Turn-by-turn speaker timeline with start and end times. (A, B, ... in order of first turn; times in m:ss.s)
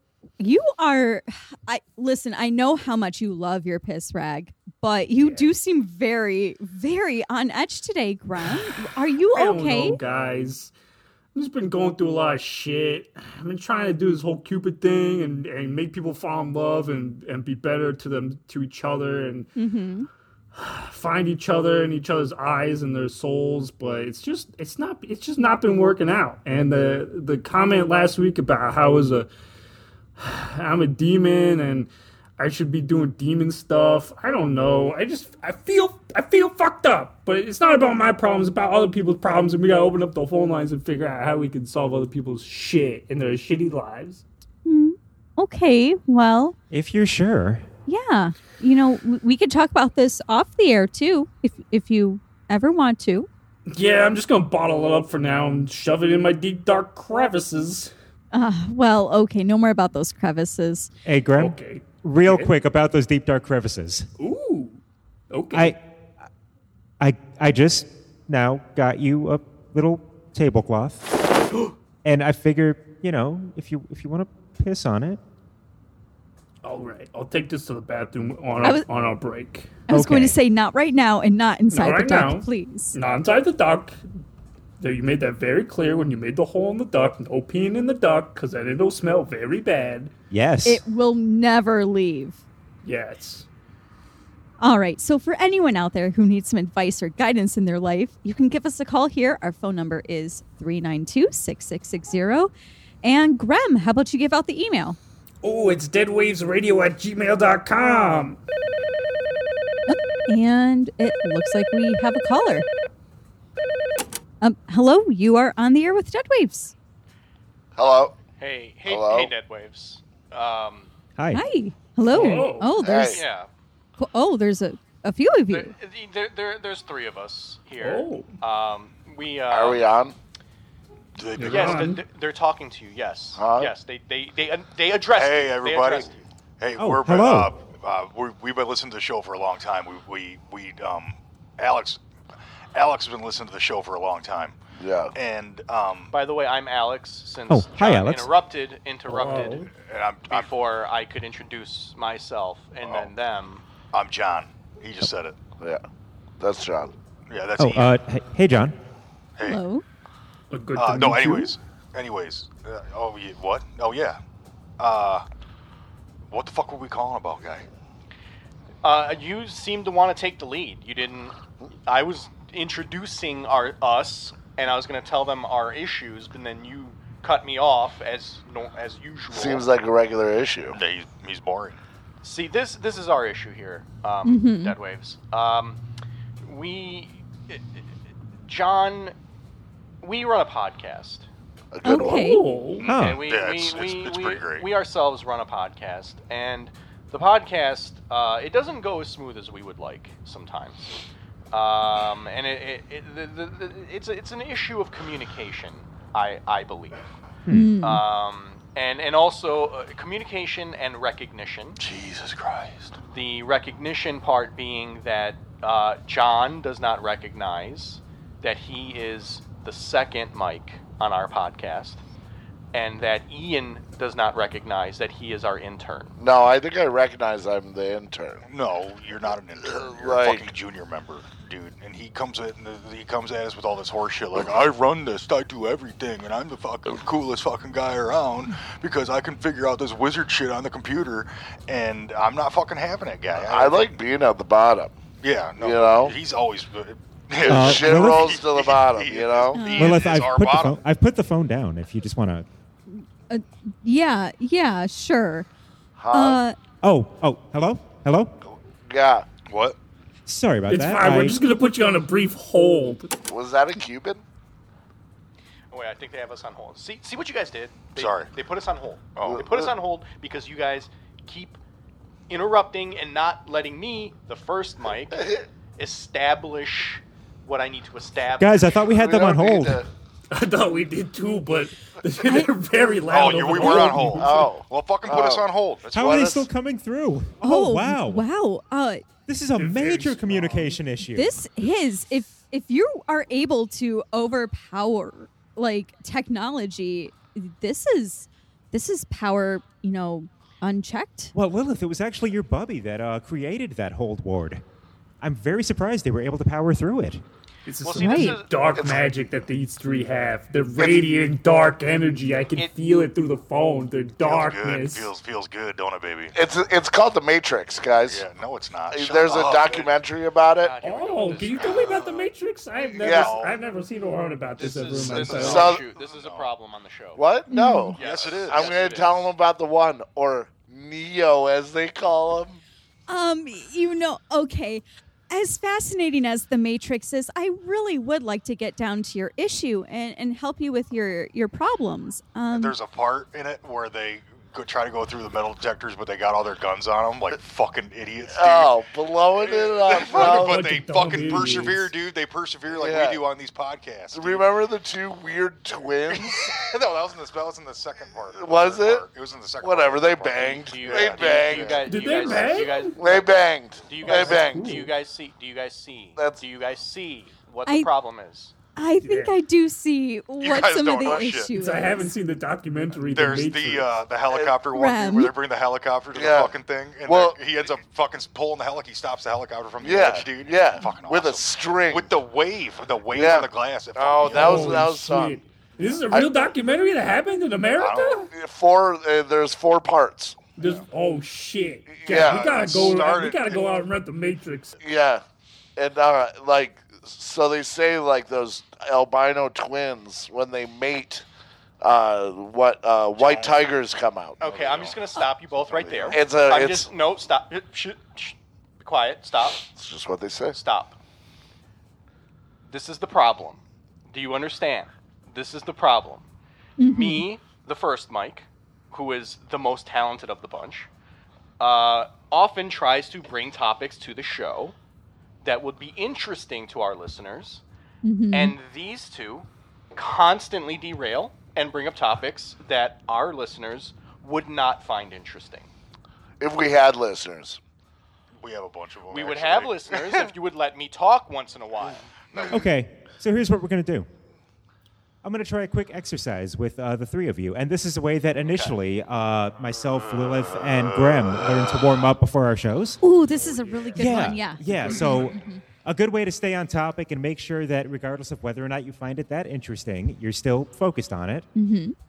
0:00.4-0:10.0 A
0:08.5-0:08.8 B
0:09.3-0:10.7 B
0:11.3-0:19.5 B
0:19.6-0:20.1 A
0:20.5-0:29.3 B
0:30.2-0:44.2 B
0:44.6-0:46.6 A
0:46.7-0:47.7 C
0:47.9-0:53.3 A
0:53.7-0:57.9 B
0:58.3-1:00.9 A
1:01.0-1:04.1 C
1:01.4-1:02.5 B
1:04.2-1:05.8 B
1:05.5-1:05.8 C
1:07.0-1:11.0 C
1:12.0-1:15.2 C
1:16.6-1:19.8 B
1:19.9-1:23.0 A
1:19.9-1:20.4 C
1:21.7-1:24.0 B
1:24.8-1:30.1 B
1:30.3-1:30.8 C
1:30.6-1:32.4 A
1:32.8-1:33.5 B
1:34.6-1:42.5 A
1:43.0-1:45.0 A
1:45.4-1:48.4 B
1:49.9-1:52.7 A
1:54.4-1:56.7 A
1:57.8-1:58.2 D
1:58.4-2:00.9 E
1:58.8-1:59.3 D
2:01.2-2:01.4 C
2:01.3-2:03.2 A
2:02.1-2:02.8 B
2:02.8-2:03.2 D
2:03.1-2:03.5 E
2:04.0-2:05.7 A
2:05.5-2:10.0 E
2:07.8-2:08.3 B
2:09.5-2:10.1 D
2:11.2-2:11.9 F
2:11.4-2:12.0 B
2:11.4-2:16.2 E
2:13.4-2:13.7 D
2:15.1-2:16.1 F
2:16.6-2:22.0 F
2:16.8-2:17.5 C
2:22.7-2:24.6 F
2:24.8-2:25.1 D
2:25.1-2:26.1 F
2:26.1-2:29.6 E
2:27.5-2:28.3 C
2:29.1-2:29.7 B
2:29.7-2:30.5 F
2:30.3-2:33.6 E
2:32.8-2:33.1 F
2:33.9-2:35.4 F
2:36.4-2:36.9 D
2:37.3-2:37.9 F
2:37.6-2:38.7 C
2:39.4-2:39.8 A
2:40.5-2:41.5 B
2:40.8-2:44.2 F
2:44.8-2:45.2 F
2:46.3-2:47.6 F
2:48.8-2:59.7 E
2:59.3-3:00.8 D
3:00.7-3:01.8 F
3:02.2-3:05.8 E
3:04.2-3:04.7 A
3:06.4-3:07.8 E
3:08.5-3:09.1 E
3:10.0-3:11.3 E
3:11.7-3:12.4 D
3:11.8-3:12.4 A
3:12.0-3:12.9 B
3:12.8-3:20.9 E
3:12.8-3:13.2 C
3:13.1-3:14.6 F
3:21.5-3:27.0 E
3:27.5-3:27.7 C
3:27.5-3:28.0 A
3:27.8-3:31.8 E
3:31.8-3:33.0 F
3:33.1-3:42.0 E
3:42.7-3:46.1 E
3:46.2-3:48.4 D
3:48.5-4:04.0 F
3:49.6-3:50.5 D
4:03.3-4:04.9 D
4:05.2-4:10.8 F
4:05.6-4:06.2 D
4:07.4-4:09.8 D
4:07.4-4:08.4 C
4:09.5-4:10.0 A
4:09.8-4:12.4 C
4:12.9-4:15.5 A
4:16.0-4:16.4 D
4:16.1-4:16.6 A
4:16.8-4:18.3 C
4:18.9-4:19.3 D
4:19.4-4:19.8 F
4:20.2-4:21.4 C
4:20.7-4:23.1 B
4:23.3-4:24.2 D
4:25.7-4:31.6 E
4:27.9-4:28.3 F
4:29.2-4:29.4 F
4:29.2-4:29.7 D
4:32.3-4:38.8 E
4:35.1-4:35.4 D
4:38.4-4:39.8 C
4:38.9-4:39.8 D
4:40.3-4:44.3 B
4:43.1-4:46.3 F
4:43.7-4:46.5 D
4:45.9-4:48.2 C
4:47.4-4:49.0 A
4:49.3-4:51.4 C
4:49.6-4:50.8 B
4:51.1-5:01.3 A
5:01.3-5:04.6 C
5:05.2-5:07.2 C
5:07.7-5:15.1 B
5:07.8-5:08.8 E
5:07.9-5:08.4 A
5:08.8-5:09.0 D
5:10.8-5:11.0 D
5:14.2-5:16.3 F
5:16.3-5:18.2 D
5:18.1-5:19.9 F
5:18.9-5:20.7 D
5:20.6-5:22.0 E
5:20.8-5:25.7 B
5:21.6-5:22.2 F
5:23.0-5:23.6 F
5:23.0-5:23.3 D
5:24.6-5:27.2 E
5:25.0-5:26.5 F
5:25.4-5:25.8 D
5:27.2-5:32.6 D
5:27.5-5:28.0 A
5:28.0-5:29.3 E
5:28.0-5:29.2 F
5:33.1-5:42.8 A
5:42.5-5:48.8 F
5:48.3-5:50.6 D
5:49.4-5:54.5 F
5:50.1-5:51.9 B
5:52.7-5:53.2 D
5:54.1-5:56.5 D
5:56.1-6:02.5 F
5:58.3-5:59.0 D
5:59.6-6:01.8 D
6:00.6-6:08.5 E
6:01.8-6:03.0 B
6:03.0-6:04.8 D
6:04.0-6:04.9 B
6:06.2-6:06.4 D
6:08.8-6:12.1 A
6:09.0-6:09.4 B
6:10.4-6:11.5 F
6:11.5-6:14.0 B
6:13.0-6:24.9 F
6:14.2-6:15.2 D
6:14.7-6:15.3 A
6:16.1-6:17.4 D
6:19.8-6:22.2 D
6:23.1-6:25.4 D
6:24.2-6:28.3 B
6:26.1-6:26.4 D
6:27.8-6:28.2 F
6:28.3-6:30.4 D
6:30.6-6:34.8 B
6:30.6-6:30.8 F
6:31.9-6:32.9 D
6:32.1-6:33.8 F
6:34.8-6:35.2 D
6:35.8-6:41.2 D
6:41.8-6:44.4 D
6:43.2-6:43.7 F
6:44.4-6:45.0 F
6:44.4-6:49.6 E
6:45.6-6:46.2 F
6:46.1-6:46.9 D
6:49.7-6:50.6 D
6:50.5-6:51.0 E
6:52.7-6:56.2 E
6:56.8-6:57.2 A
6:56.8-7:00.9 E
7:01.6-7:04.7 E
7:05.4-7:07.6 E
7:08.0-7:08.5 A
7:08.3-7:15.7 E
7:16.4-7:17.6 D
7:18.4-7:20.0 F
7:19.1-7:22.5 E
7:22.3-7:22.6 F
7:22.5-7:24.1 C
7:25.2-7:33.0 C
7:28.4-7:28.8 E
7:33.0-7:35.6 A
7:33.5-7:35.3 B
7:34.0-7:41.5 C
7:41.5-7:41.9 A